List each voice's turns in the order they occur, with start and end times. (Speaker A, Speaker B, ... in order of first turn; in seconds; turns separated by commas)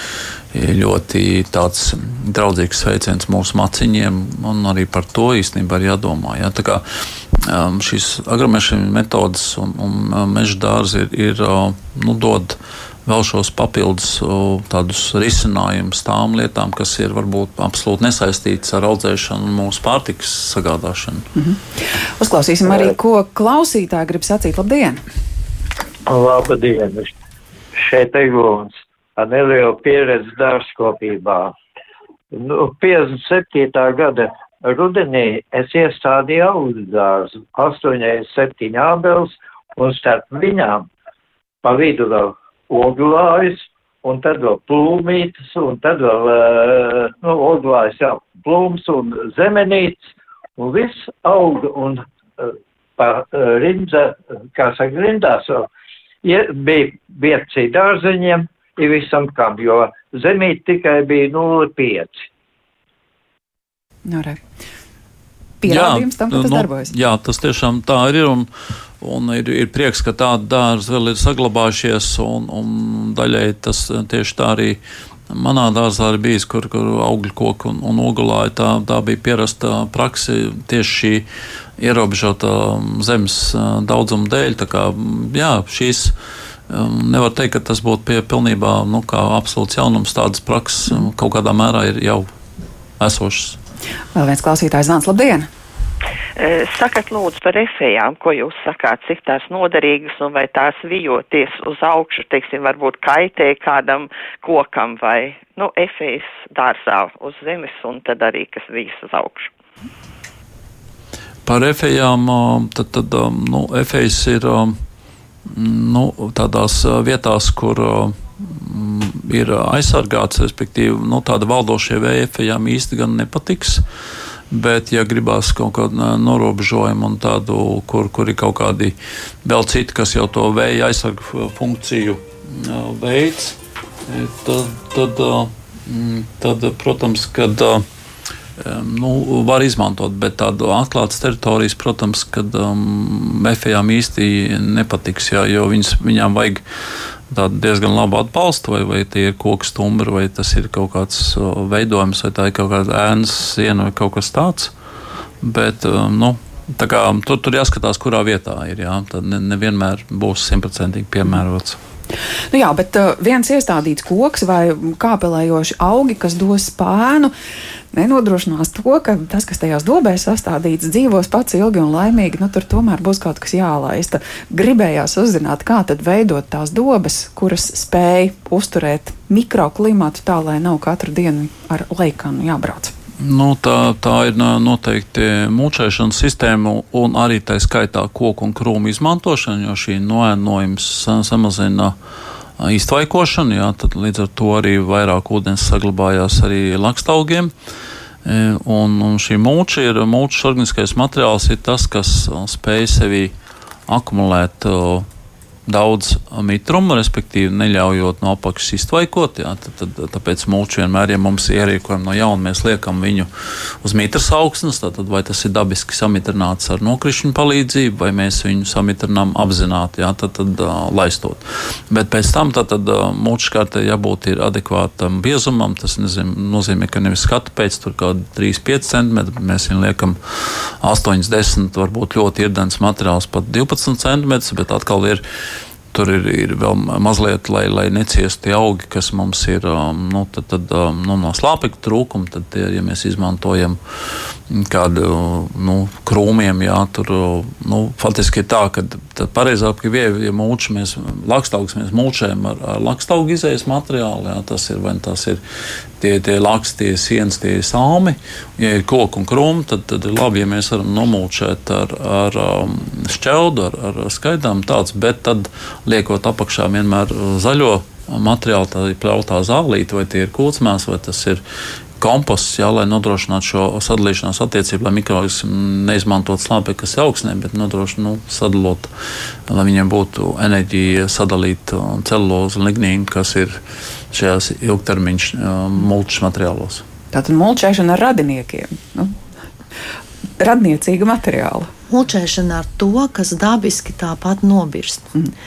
Speaker A: 0.5-21.3, Speaker B: 21.4-21.6, Speaker B: 22.2-25.0, Speaker C: 26.1-27.1, Speaker C: 27.7-31.5, Speaker C: 32.3-40.9, Speaker C: 41.6-50.0, Speaker C: 50.6-55.7, Speaker C: 56.2-62.2, Speaker B: 64.0-64.4, Speaker B: 65.6-66.9, Speaker A: 65.6-68.5, Speaker A: 69.0-81.3, Speaker A: 81.8-86.1, Speaker A: 86.7-92.3, Speaker A: 93.0-93.6, Speaker B: 94.1-95.5, Speaker D: 96.4-109.5, Speaker A: 111.5-114.8, Speaker A: 115.5-123.8, Speaker A: 124.5-137.8, Speaker A: 138.6-146.6, Speaker A: 147.3-154.7, Speaker A: 155.4-161.8, Speaker B: 162.5-167.3, Speaker B: 167.9-182.9, Speaker A: 183.2-191.9, Speaker A: 192.6-197.5, Speaker A: 198.2-203.3, Speaker A: 203.9-205.1, Speaker A: 205.7-235.2, Speaker A: 235.9-255.4, Speaker A: 256.0-271.4, Speaker A: 272.0-278.9, Speaker A: 279.5-283.6, Speaker A: 284.1-286.8, Speaker B: 287.1-289.1, Speaker B: 290.4-291.7, Speaker E: 291.9-295.1